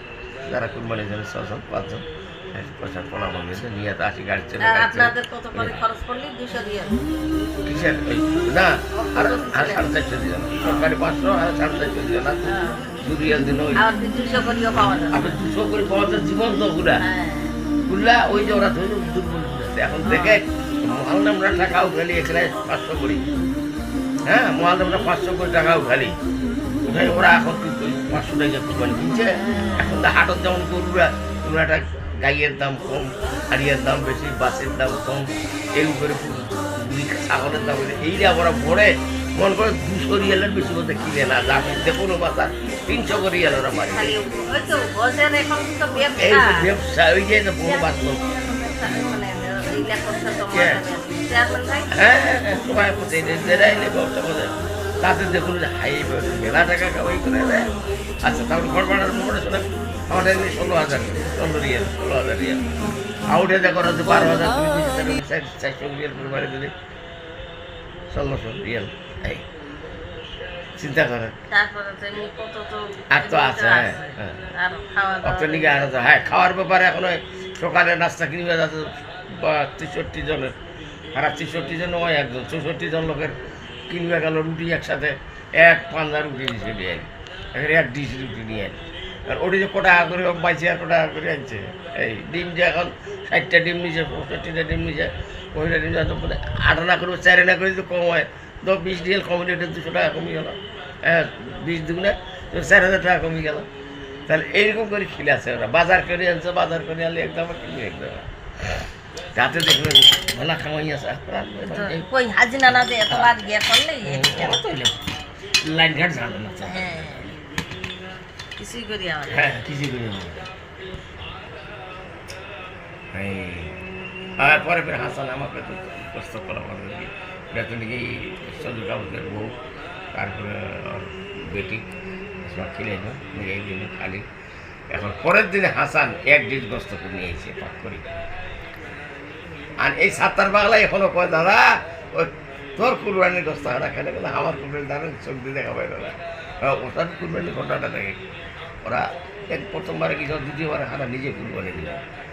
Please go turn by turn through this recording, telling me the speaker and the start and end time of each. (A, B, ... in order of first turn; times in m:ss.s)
0:00.4-0:05.8 A
0:04.6-0:07.0 B
0:07.6-0:12.5 A
0:08.9-0:09.9 B
0:12.4-0:12.9 B
0:13.0-0:13.8 A
0:13.8-0:15.4 B
0:15.1-0:17.0 A
0:17.0-0:17.6 B
0:17.9-0:23.3 A
0:20.0-0:20.4 B
0:24.2-0:26.2 A
0:26.8-0:44.1 A
0:29.4-0:30.0 B
0:43.9-0:46.6 B
0:46.2-0:48.2 A
0:47.6-0:51.9 B
0:50.5-0:50.8 A
0:51.9-0:57.7 A
0:58.2-1:02.6 A
1:03.3-1:06.7 A
1:08.1-1:09.4 A
1:10.8-1:11.4 A
1:11.5-1:15.9 B
1:13.1-1:14.5 A
1:15.2-1:20.5 A
1:21.1-1:23.3 A
1:23.9-1:43.7 A
1:44.3-1:48.3 A
1:49.4-1:52.0 A
1:51.7-1:54.6 B
1:52.7-1:53.3 A
1:54.0-1:57.4 A
1:56.6-1:57.3 B
1:58.6-1:59.4 B
1:59.3-2:00.5 A
2:03.1-2:03.8 A
2:04.4-2:09.6 A
2:10.1-2:11.9 A
2:12.4-2:14.2 A
2:14.9-2:18.1 A
2:19.8-2:28.2 A
2:28.8-2:32.0 A